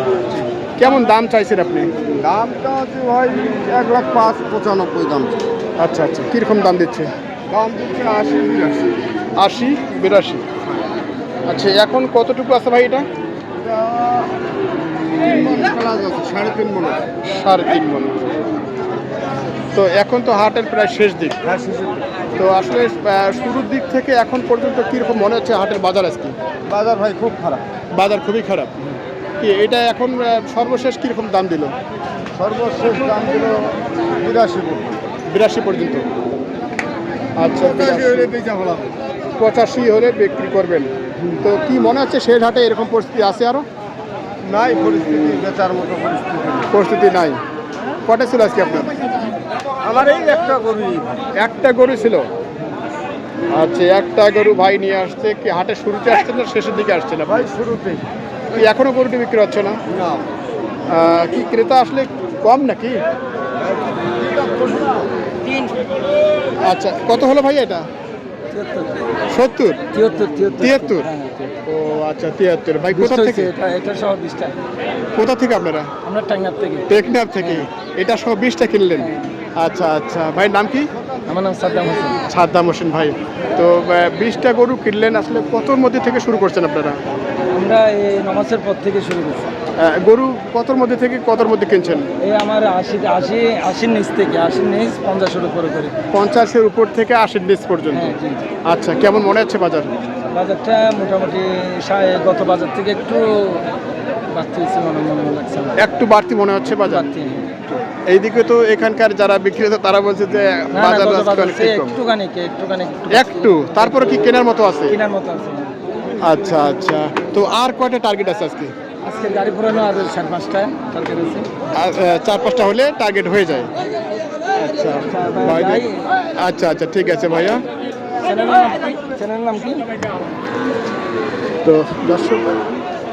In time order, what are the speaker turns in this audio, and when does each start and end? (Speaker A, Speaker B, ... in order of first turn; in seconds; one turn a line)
Speaker A: 0.8-1.9
Speaker B: 2.1-5.4
Speaker A: 5.8-7.1
Speaker B: 7.5-8.9
Speaker A: 9.4-10.4
Speaker A: 11.4-13.1
Speaker B: 13.7-14.2
Speaker B: 15.1-17.1
Speaker A: 17.2-18.1
Speaker A: 19.7-21.4
Speaker B: 21.5-22.0
Speaker A: 22.4-26.3
Speaker B: 26.7-27.6
Speaker A: 27.9-28.8
Speaker A: 29.4-31.7
Speaker B: 32.3-35.0
Speaker A: 35.3-36.0
Speaker A: 37.4-38.4
Speaker B: 37.9-38.9
Speaker A: 39.4-43.6
Speaker B: 44.4-46.7
Speaker A: 46.7-47.4
Speaker A: 48.0-48.9
Speaker B: 49.8-51.2
Speaker A: 51.3-52.3
Speaker A: 53.5-57.5
Speaker B: 57.4-58.0
Speaker A: 58.5-59.8
Speaker A: 60.9-63.0
Speaker B: 64.2-64.8
Speaker A: 66.6-67.8
Speaker C: 68.5-69.0
Speaker A: 69.3-69.8
Speaker C: 69.9-71.5
Speaker A: 70.6-71.1
Speaker A: 71.6-73.5
Speaker C: 72.9-74.5
Speaker A: 75.1-75.9
Speaker C: 76.0-76.9
Speaker A: 76.9-80.9
Speaker C: 81.3-82.2
Speaker A: 82.2-87.0
Speaker C: 87.5-89.5
Speaker A: 89.8-92.1
Speaker C: 92.2-95.9
Speaker A: 96.1-99.9
Speaker C: 97.9-98.4
Speaker C: 100.3-103.7
Speaker C: 104.3-105.8
Speaker A: 105.8-107.1
Speaker C: 106.8-107.6
Speaker A: 108.1-112.0
Speaker C: 110.7-114.2
Speaker A: 113.1-115.0
Speaker C: 114.9-115.7
Speaker A: 116.2-118.7
Speaker C: 119.0-121.5
Speaker A: 121.7-123.8
Speaker A: 124.5-127.6
Speaker C: 125.0-126.0
Speaker C: 128.2-129.9
Speaker A: 131.6-132.6